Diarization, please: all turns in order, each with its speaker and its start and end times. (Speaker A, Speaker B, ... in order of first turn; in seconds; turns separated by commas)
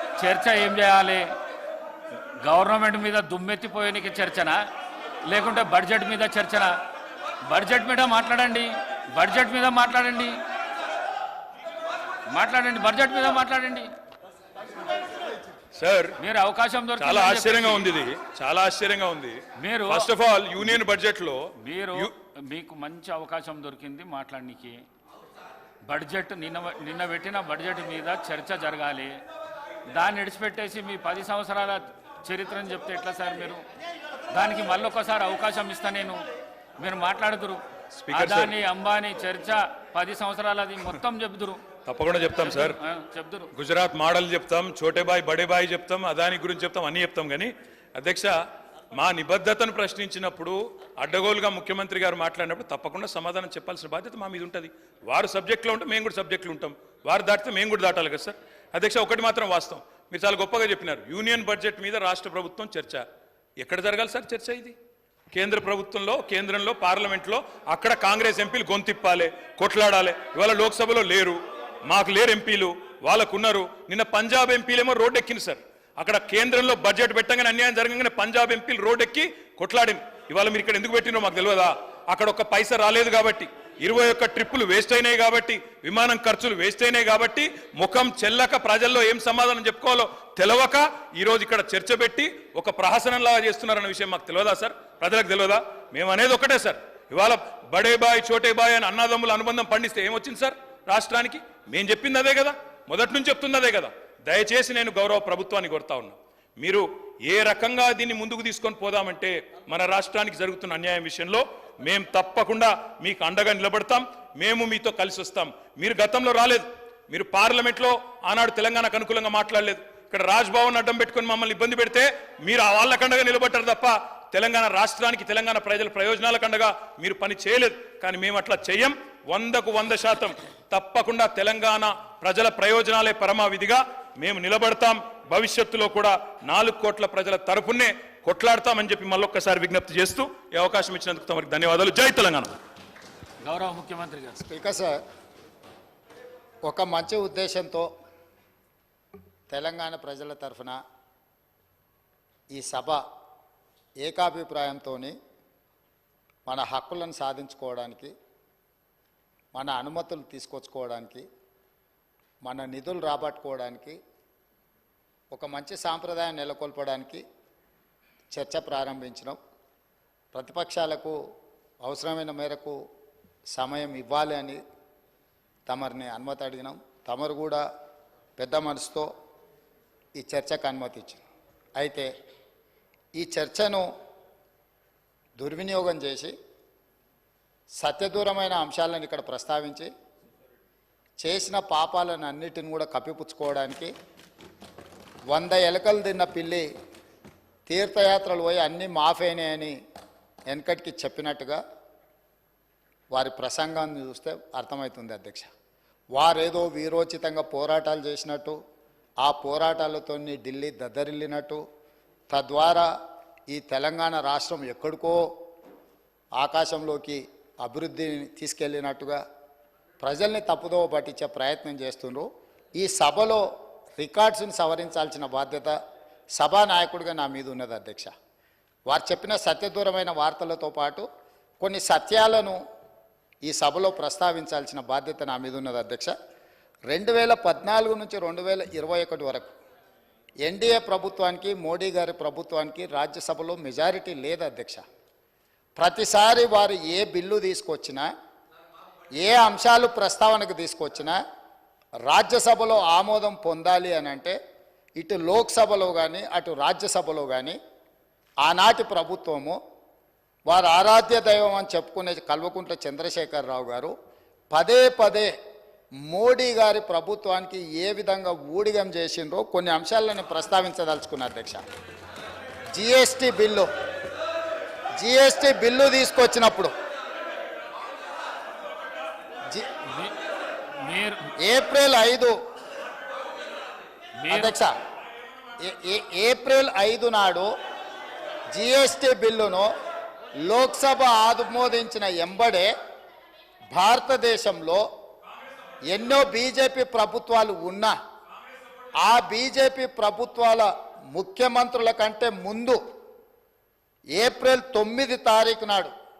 Speaker A: 0.2-1.2, Speaker A: 2.4-4.6, Speaker A: 5.2-6.7, Speaker A: 7.5-10.3, Speaker A: 12.3-13.9, Speaker B: 15.8-16.1, Speaker A: 16.2-17.9, Speaker B: 17.0-22.1, Speaker A: 19.6-20.1, Speaker A: 21.6-24.8, Speaker A: 25.9-29.1, Speaker A: 29.9-33.6, Speaker A: 34.3-36.2, Speaker A: 36.8-41.6, Speaker B: 37.9-38.5, Speaker B: 41.9-42.8, Speaker A: 42.4-43.5, Speaker B: 43.5-48.3, Speaker B: 48.9-63.0, Speaker B: 63.6-64.8, Speaker B: 65.3-142.5, Speaker A: 143.4-144.4, Speaker C: 144.4-145.0, Speaker C: 146.6-147.9, Speaker C: 149.5-150.8, Speaker C: 152.5-153.0, Speaker C: 154.0-155.2, Speaker C: 156.5-158.1, Speaker C: 159.5-161.2, Speaker C: 162.4-164.0, Speaker C: 165.3-167.2, Speaker C: 168.3-169.4, Speaker C: 170.3-171.2, Speaker C: 171.8-172.8, Speaker C: 173.5-174.6, Speaker C: 175.7-177.6, Speaker C: 178.4-179.1, Speaker C: 180.2-181.2, Speaker C: 181.8-182.1, Speaker C: 183.2-183.8, Speaker C: 185.4-186.3, Speaker C: 187.8-189.9, Speaker C: 191.2-193.9, Speaker C: 195.3-196.7, Speaker C: 197.7-199.7, Speaker C: 200.5-201.6, Speaker C: 203.1-205.5, Speaker C: 206.1-208.6, Speaker C: 209.2-211.6, Speaker C: 212.3-212.9, Speaker C: 213.5-215.2, Speaker C: 216.4-219.2, Speaker C: 220.0-223.4, Speaker C: 223.9-225.7, Speaker C: 226.3-228.1, Speaker C: 228.9-231.1, Speaker C: 231.6-232.6, Speaker C: 233.4-236.1, Speaker C: 236.9-239.5, Speaker C: 240.4-244.8, Speaker C: 245.8-248.1, Speaker C: 249.2-251.2, Speaker C: 252.1-254.4, Speaker C: 255.0-257.6, Speaker C: 258.4-259.6, Speaker C: 260.5-263.9, Speaker C: 264.5-265.3, Speaker C: 266.1-271.6, Speaker C: 272.7-273.7, Speaker C: 275.0-276.7, Speaker A: 280.8-281.2, Speaker C: 281.4-282.3, Speaker A: 284.2-284.5, Speaker C: 284.3-284.7, Speaker C: 285.6-287.5, Speaker C: 288.5-289.7, Speaker C: 290.4-292.7, Speaker C: 293.7-294.8, Speaker C: 295.9-297.9, Speaker C: 299.0-302.8, Speaker C: 304.1-305.9